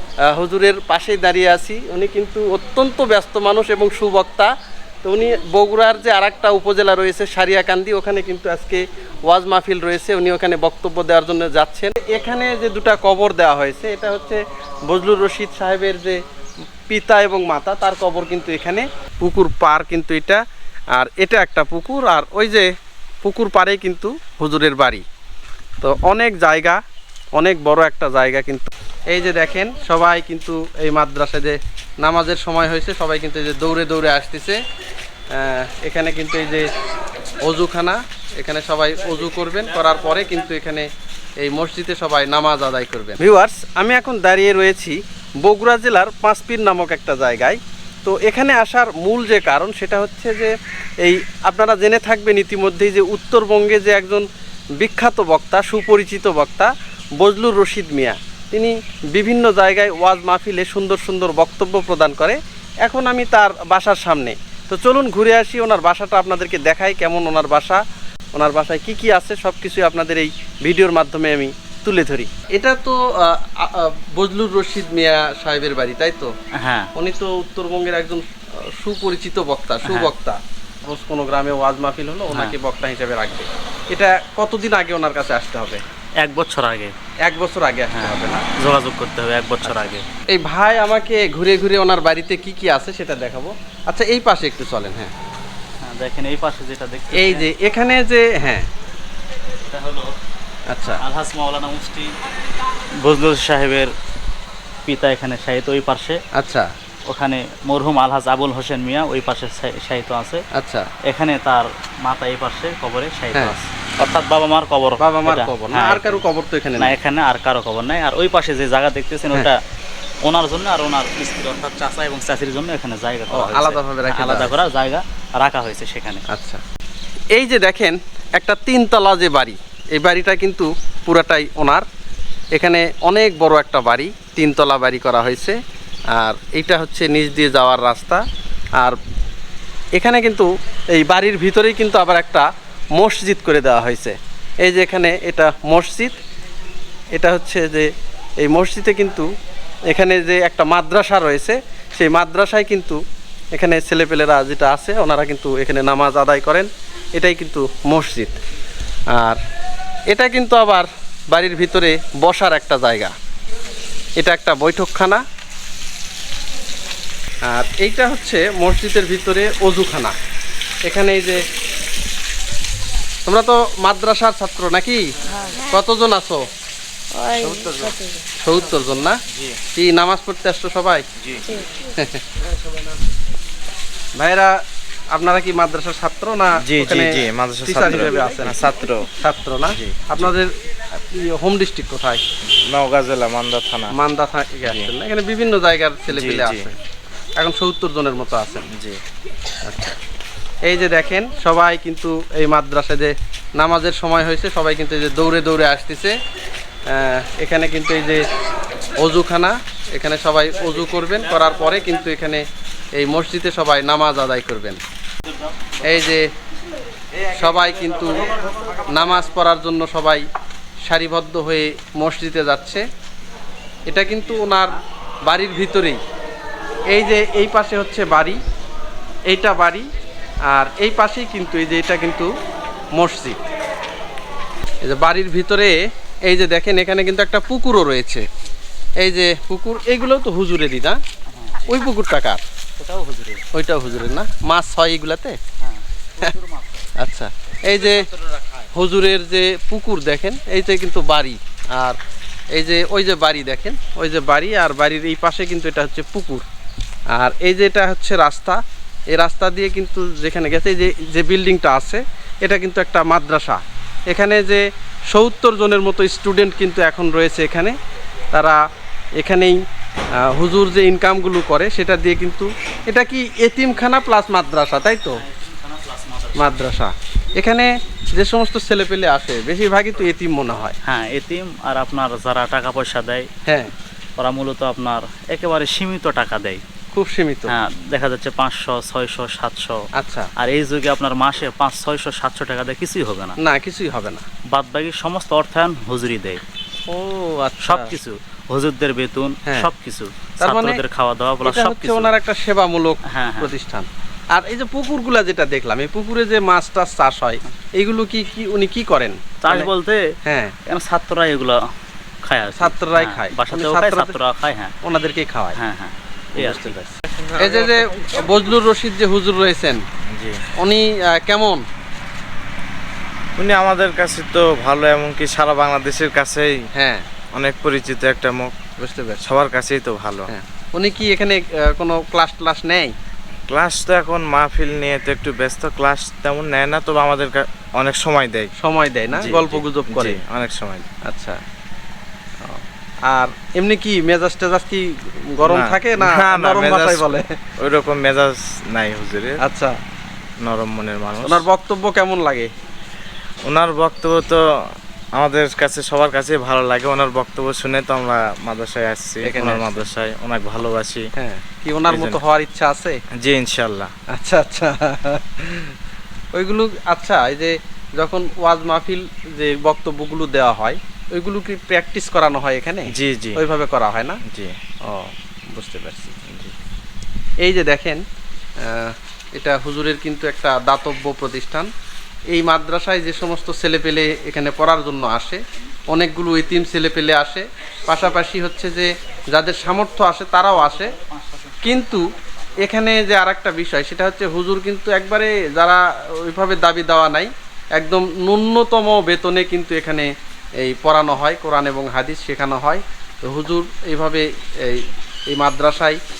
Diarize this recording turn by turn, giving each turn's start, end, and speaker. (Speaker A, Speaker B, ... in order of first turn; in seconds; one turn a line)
Speaker A: 0.3-4.5
Speaker A: 5.0-16.2
Speaker A: 16.9-20.4
Speaker A: 21.0-22.7
Speaker A: 23.2-25.0
Speaker A: 25.8-26.8
Speaker A: 27.4-34.6
Speaker A: 35.3-36.6
Speaker A: 37.4-40.9
Speaker A: 41.4-54.2
Speaker A: 54.8-67.8
Speaker A: 68.3-76.3
Speaker B: 76.6-76.9
Speaker A: 76.9-85.8
Speaker B: 79.8-80.1
Speaker B: 86.2-86.9
Speaker A: 87.2-88.5
Speaker B: 87.9-90.1
Speaker A: 89.6-95.1
Speaker B: 95.8-97.5
Speaker A: 97.1-98.7
Speaker B: 99.7-100.2
Speaker A: 100.7-101.0
Speaker B: 101.0-102.1
Speaker B: 103.0-103.9
Speaker B: 104.8-106.2
Speaker A: 106.3-106.7
Speaker B: 107.1-110.4
Speaker A: 110.5-110.9
Speaker B: 111.0-116.2
Speaker A: 115.0-117.0
Speaker B: 116.8-119.6
Speaker B: 120.2-126.2
Speaker A: 123.3-124.5
Speaker A: 126.3-126.6
Speaker A: 127.3-131.8
Speaker A: 132.5-135.6
Speaker A: 136.1-138.2
Speaker A: 139.9-146.2
Speaker A: 147.1-149.3
Speaker A: 149.9-153.0
Speaker A: 153.5-158.4
Speaker A: 159.1-159.4
Speaker A: 160.1-163.1
Speaker A: 164.2-165.2
Speaker A: 167.4-170.1
Speaker A: 170.8-171.4
Speaker A: 173.2-175.1
Speaker A: 175.7-176.4
Speaker C: 177.2-178.0
Speaker A: 178.4-179.2
Speaker C: 179.3-179.6
Speaker A: 179.7-181.0
Speaker C: 181.2-181.5
Speaker A: 181.8-182.2
Speaker A: 184.2-184.6
Speaker A: 185.1-188.6
Speaker C: 186.6-189.1
Speaker A: 189.2-192.2
Speaker C: 189.7-190.3
Speaker C: 192.5-193.9
Speaker A: 193.9-196.8
Speaker C: 196.1-196.6
Speaker A: 197.4-198.7
Speaker C: 198.7-199.0
Speaker A: 199.6-200.0
Speaker A: 200.7-206.1
Speaker A: 206.9-208.2
Speaker A: 209.0-212.4
Speaker A: 212.9-214.8
Speaker A: 215.8-216.3
Speaker A: 217.3-218.3
Speaker A: 218.8-220.2
Speaker A: 220.8-222.8
Speaker A: 223.9-226.0
Speaker A: 226.9-228.4
Speaker A: 229.3-229.9
Speaker A: 230.5-232.3
Speaker A: 233.0-233.4
Speaker A: 234.8-238.2
Speaker A: 239.0-241.0
Speaker B: 241.3-241.7
Speaker A: 241.6-242.4
Speaker B: 242.8-243.4
Speaker A: 243.5-245.4
Speaker B: 245.6-246.9
Speaker A: 247.0-248.1
Speaker B: 247.8-248.7
Speaker A: 248.7-252.0
Speaker A: 252.5-256.4
Speaker A: 257.1-267.7
Speaker A: 268.3-268.6
Speaker A: 269.2-269.6
Speaker A: 270.2-275.2
Speaker B: 275.1-276.5
Speaker A: 276.4-280.8
Speaker B: 280.8-283.3
Speaker A: 283.4-283.7
Speaker B: 284.2-286.6
Speaker A: 286.9-287.6
Speaker B: 287.5-289.8
Speaker A: 289.9-290.3
Speaker B: 290.4-293.4
Speaker A: 293.4-294.2
Speaker B: 294.5-296.4
Speaker A: 296.9-297.9
Speaker B: 297.6-302.1
Speaker A: 300.4-300.8
Speaker A: 301.4-309.7
Speaker B: 303.1-303.5
Speaker B: 309.4-310.0
Speaker A: 310.2-310.6
Speaker B: 310.6-311.6
Speaker B: 312.2-314.7
Speaker A: 312.6-314.2
Speaker A: 314.8-315.6
Speaker B: 315.6-316.8
Speaker A: 316.4-319.8
Speaker C: 317.1-317.8
Speaker C: 320.1-320.4
Speaker A: 320.6-321.6
Speaker C: 323.4-326.6
Speaker A: 326.7-327.1
Speaker C: 327.3-328.5
Speaker A: 328.8-329.2
Speaker C: 329.2-330.3
Speaker A: 330.3-332.9
Speaker C: 333.5-338.5
Speaker A: 338.6-340.2
Speaker C: 339.1-340.9
Speaker A: 341.1-341.4
Speaker A: 342.4-347.4
Speaker C: 345.4-349.4
Speaker A: 349.4-349.8
Speaker C: 350.4-351.4
Speaker A: 351.2-352.5
Speaker C: 353.5-361.0
Speaker A: 359.2-359.8
Speaker A: 361.1-363.0
Speaker C: 361.9-362.2
Speaker C: 363.2-363.9
Speaker A: 364.1-365.7
Speaker A: 366.3-374.2
Speaker C: 372.9-373.4
Speaker C: 374.2-374.6
Speaker A: 374.9-376.2
Speaker C: 376.3-376.5
Speaker A: 377.4-378.0
Speaker A: 378.6-381.7
Speaker A: 382.3-390.9
Speaker B: 391.0-391.8
Speaker A: 391.6-392.1
Speaker A: 392.6-406.0